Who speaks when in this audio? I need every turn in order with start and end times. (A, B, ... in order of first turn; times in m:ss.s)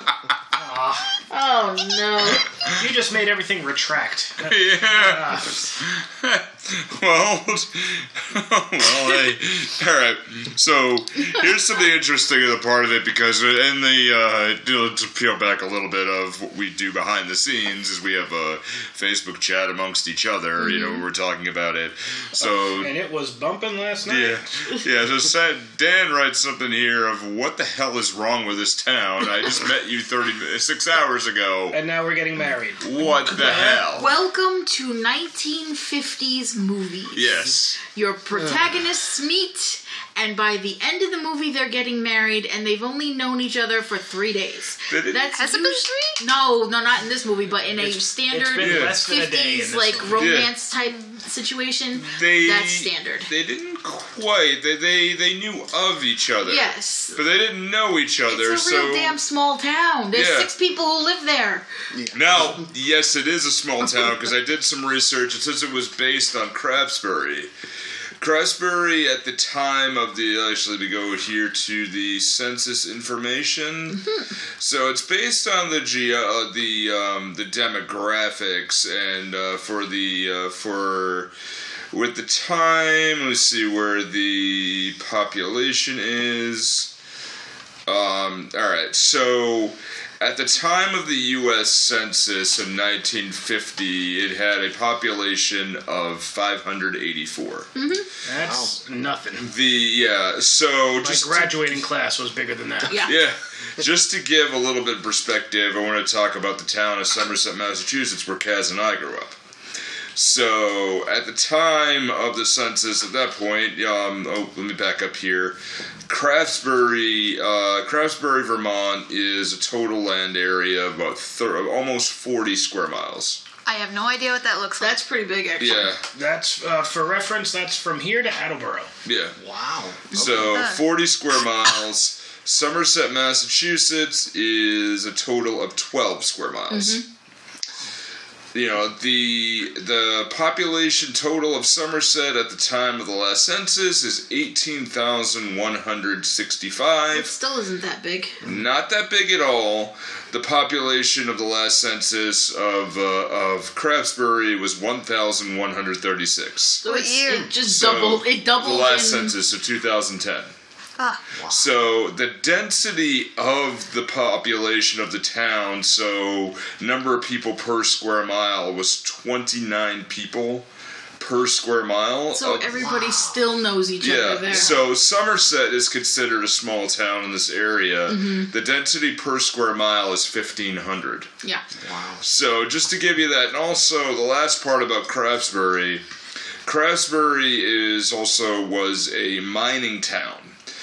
0:00.5-0:01.1 A
0:01.3-0:02.4 B
0:02.8-0:05.7 A
0:04.4-0:23.0 C
0:20.6-0:20.9 B
0:22.4-0:24.6 A
0:24.1-0:31.8 C
0:31.7-0:33.9 A
0:32.8-0:34.1 C
0:33.9-0:53.3 B
0:37.1-0:37.8 C
0:38.4-0:38.6 D
0:44.9-0:45.3 C
0:45.3-0:46.2 E
0:47.8-0:50.3 A
0:48.6-0:49.0 C
0:50.1-0:50.5 C
0:52.0-0:59.2 C
0:56.4-0:57.2 B
0:58.3-1:01.7 B
1:00.1-1:00.5 C
1:01.9-1:02.7 D
1:02.1-1:07.5 C
1:08.2-1:14.0 C
1:14.0-1:14.3 B
1:14.6-1:21.3 C
1:21.9-1:26.9 C
1:27.9-1:37.7 C
1:37.8-1:38.1 B
1:38.2-1:39.4 A
1:38.4-1:38.8 D
1:39.4-1:41.8 C
1:41.0-1:43.0 A
1:42.9-1:43.2 B
1:43.0-1:49.4 C
1:50.2-2:03.4 C
2:03.6-2:05.0 E
2:04.8-2:05.9 B
2:05.6-2:06.1 C
2:06.1-2:08.9 A
2:09.0-2:09.4 C
2:09.4-2:10.6 D
2:10.1-2:17.0 C
2:10.5-2:10.8 E
2:16.7-2:17.0 B
2:18.5-2:27.3 C
2:27.1-2:28.4 B
2:28.4-2:36.8 C
2:36.8-2:37.5 E
2:36.8-2:39.4 B
2:37.5-2:40.5 C
2:41.0-2:41.3 E
2:41.4-2:41.6 D
2:41.5-2:50.7 C
2:51.2-2:52.7 C
2:52.3-2:54.8 B
2:52.7-2:53.4 D
2:54.0-3:01.3 C
2:58.1-2:58.5 B
3:01.8-3:02.2 D
3:02.2-3:06.0 C
3:06.6-3:10.6 C